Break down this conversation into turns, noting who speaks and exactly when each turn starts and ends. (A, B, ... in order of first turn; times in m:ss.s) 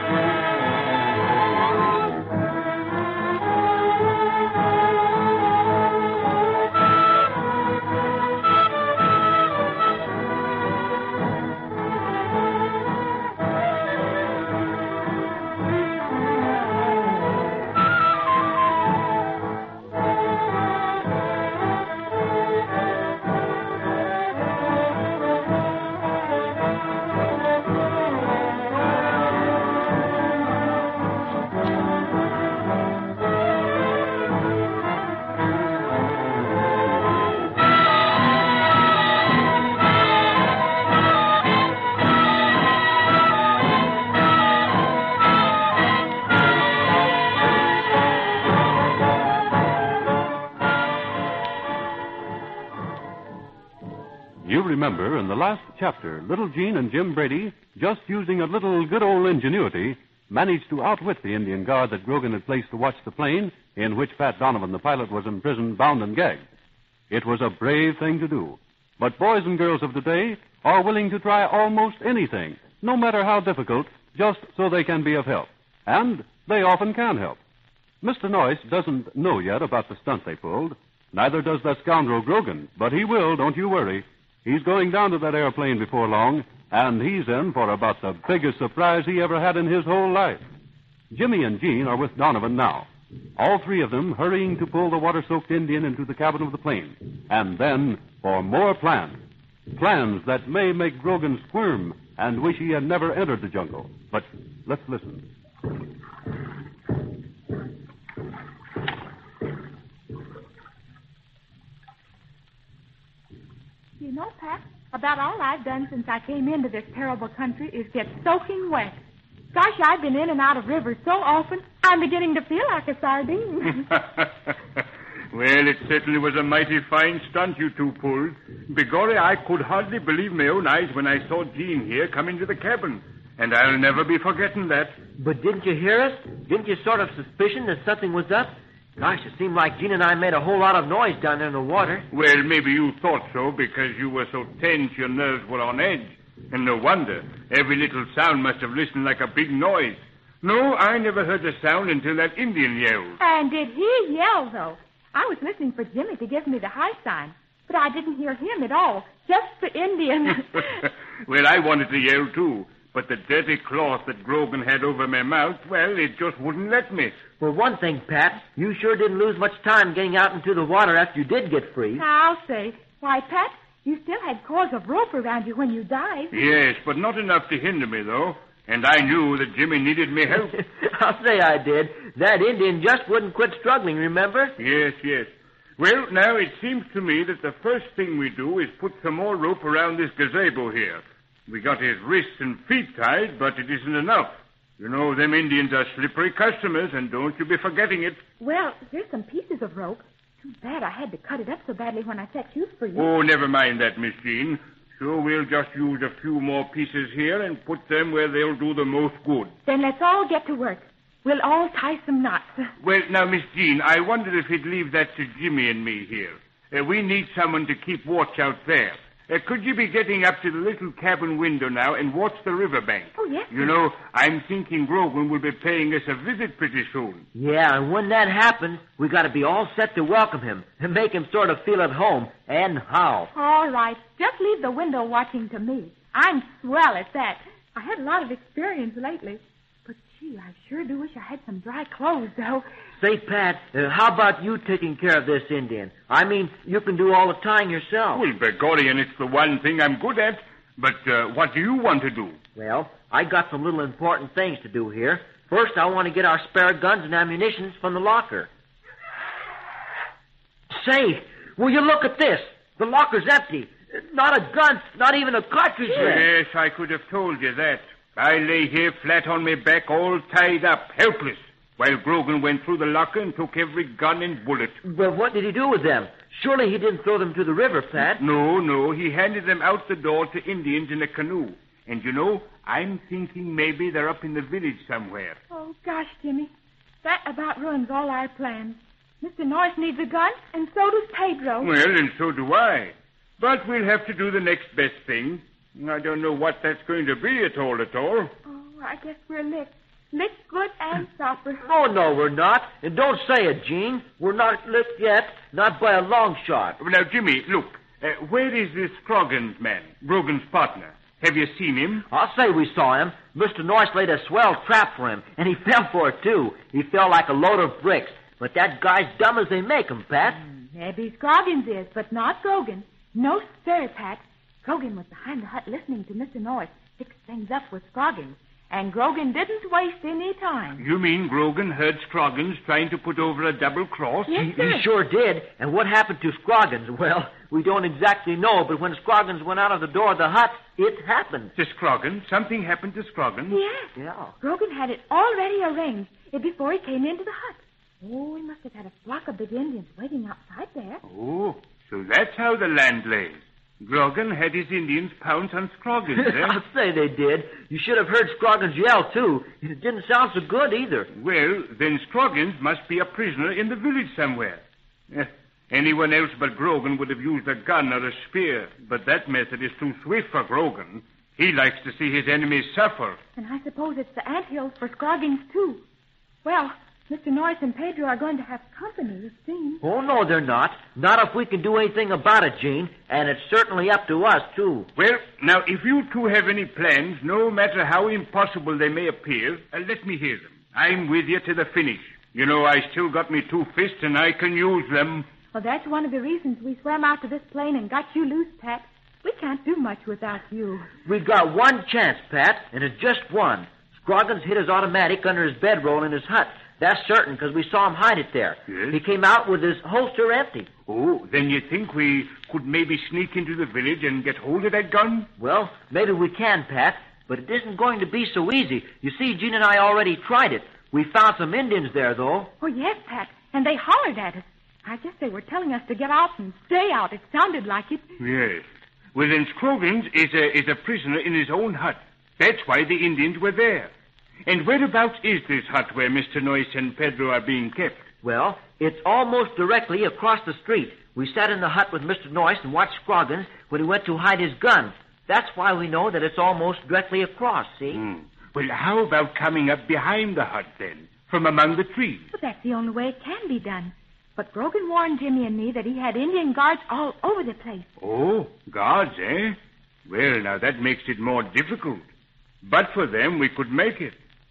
0:54.4-1:06.4 A
1:07.1-1:17.4 A
1:18.0-1:30.4 A
1:31.1-1:32.9 A
1:33.4-1:39.2 A
1:39.8-1:45.2 A
1:54.0-1:59.0 B
1:59.5-2:03.9 B
2:04.0-2:04.2 C
2:05.3-2:15.0 C
2:15.2-2:22.0 D
2:22.1-2:33.2 C
2:33.2-2:40.8 B
2:40.8-2:47.1 C
2:47.4-2:52.0 D
2:51.9-2:56.4 B
2:56.3-3:00.6 C
3:00.5-3:04.5 D
3:04.6-3:18.2 C
3:18.4-3:23.1 B
3:22.9-3:29.5 C
3:29.6-3:32.7 B
3:32.8-3:47.2 C
3:43.2-3:43.7 B
3:47.3-3:53.3 D
3:53.3-4:02.6 B
4:03.0-4:08.2 D
4:08.1-4:12.4 C
4:12.6-4:18.5 D
4:20.7-4:26.3 D
4:25.9-4:34.8 C
4:34.8-4:38.2 D
4:38.2-4:45.4 C
4:45.5-4:46.5 B
4:47.0-4:51.7 B
4:51.6-4:58.3 C
4:58.4-5:01.6 B
5:01.6-5:06.8 D
5:06.8-5:12.0 C
5:12.1-5:20.4 D
5:20.3-5:30.8 B
5:30.8-5:34.3 C
5:34.3-5:34.8 B
5:34.3-5:41.5 D
5:41.6-5:43.6 C
5:43.5-5:51.0 B
5:43.9-5:44.3 D
5:51.0-5:56.6 C
5:56.1-6:01.1 D
6:01.1-6:13.2 C
6:13.4-6:15.8 B
6:16.4-6:19.8 B
6:19.8-6:24.9 D
6:25.0-6:35.3 C
6:35.5-6:40.9 B
6:41.0-6:50.7 D
6:48.7-6:49.0 C
6:50.9-6:55.3 C
6:55.4-7:02.5 D
7:02.6-7:08.0 B
7:08.2-7:13.9 C
7:14.4-7:18.1 C
7:18.2-7:28.0 D
7:27.9-7:32.3 C
7:32.3-7:37.9 B
7:38.0-7:42.0 C
7:42.6-7:44.2 C